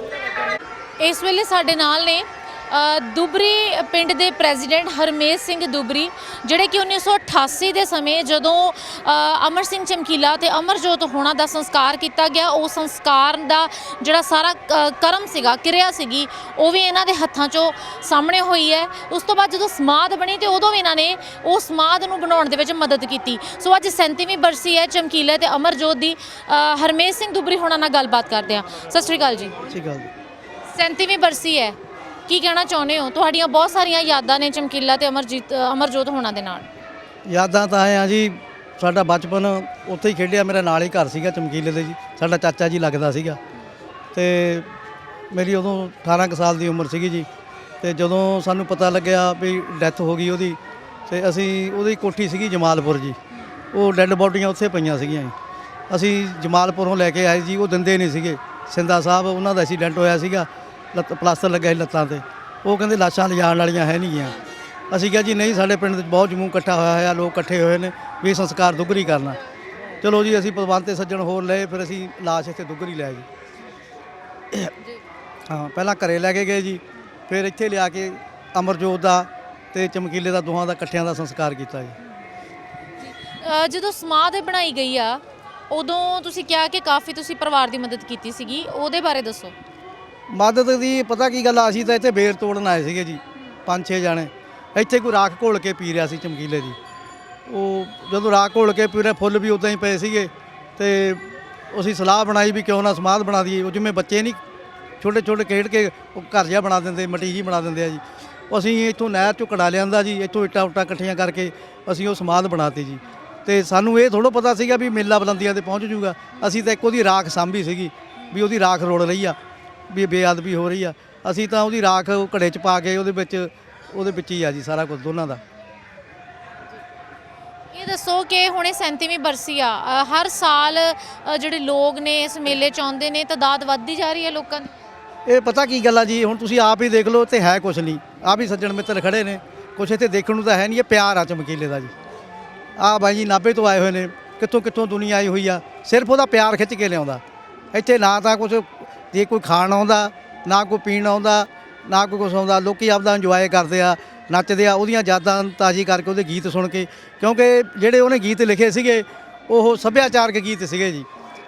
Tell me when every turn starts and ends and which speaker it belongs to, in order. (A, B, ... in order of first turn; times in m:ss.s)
0:01.0-0:29.6 A
0:29.6-0:30.1 B
0:30.7-0:31.8 A
0:32.3-0:36.7 A
0:37.2-0:43.4 B
0:44.1-0:44.7 B
0:45.3-0:47.3 B
0:47.8-0:53.2 B
0:53.7-0:55.3 B
0:55.9-1:04.4 B
1:04.9-1:09.4 B
1:10.0-1:13.2 B
1:15.5-1:22.0 B
1:23.0-1:29.5 A
1:30.3-1:36.8 B
1:37.5-1:44.4 B
1:45.0-1:59.4 B
1:59.9-2:05.4 B
2:07.7-2:14.7 A
2:15.2-2:21.9 B
2:22.8-2:41.1 B